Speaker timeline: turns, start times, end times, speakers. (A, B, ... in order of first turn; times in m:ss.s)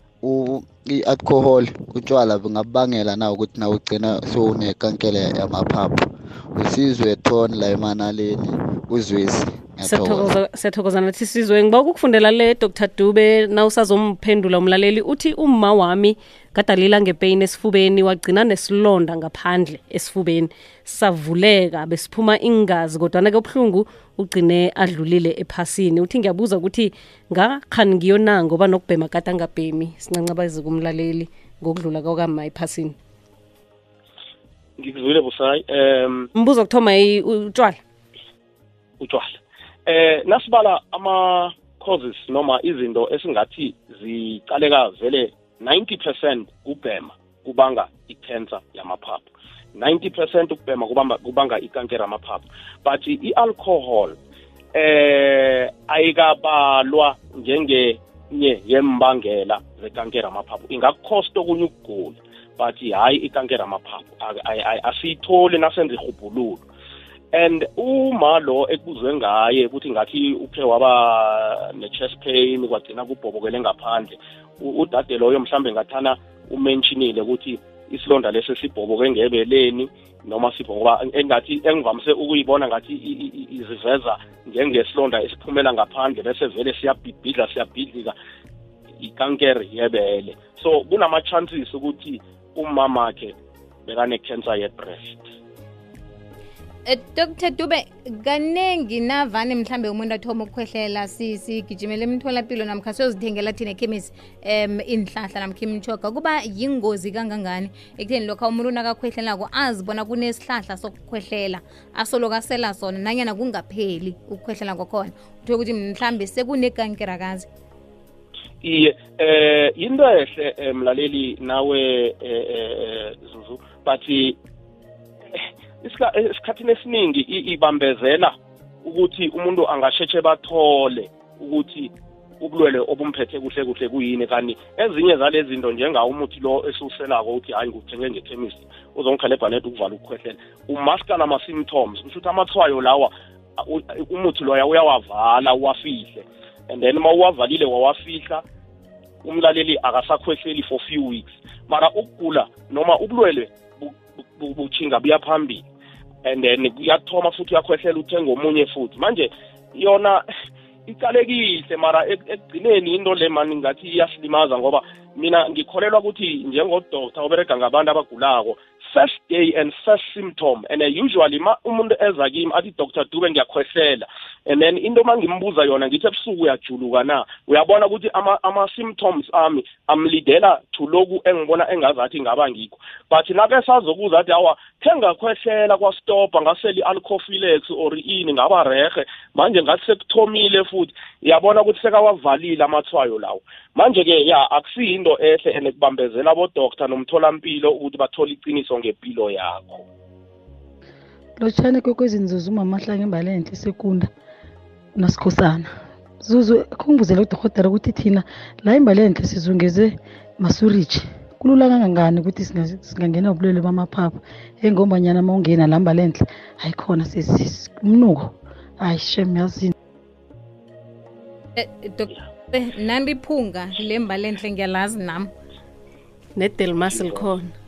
0:00.2-0:10.4 A
0:09.8-0:33.0 B
0:34.8-0:36.3 C
0:36.3-0:37.8 B
0:39.0-0:54.2 C
0:54.7-1:06.6 C
1:07.3-1:28.1 C
1:29.0-1:33.3 C
1:33.8-1:35.2 C
1:36.9-1:57.5 D
1:58.6-2:04.4 C
2:05.3-2:28.4 C
2:29.2-2:35.6 C
2:36.2-2:40.2 C
2:40.9-3:19.8 C
3:21.4-3:24.1 E
3:25.0-3:39.7 E
3:41.6-3:45.3 D
3:46.4-3:47.5 B
3:46.9-3:47.2 C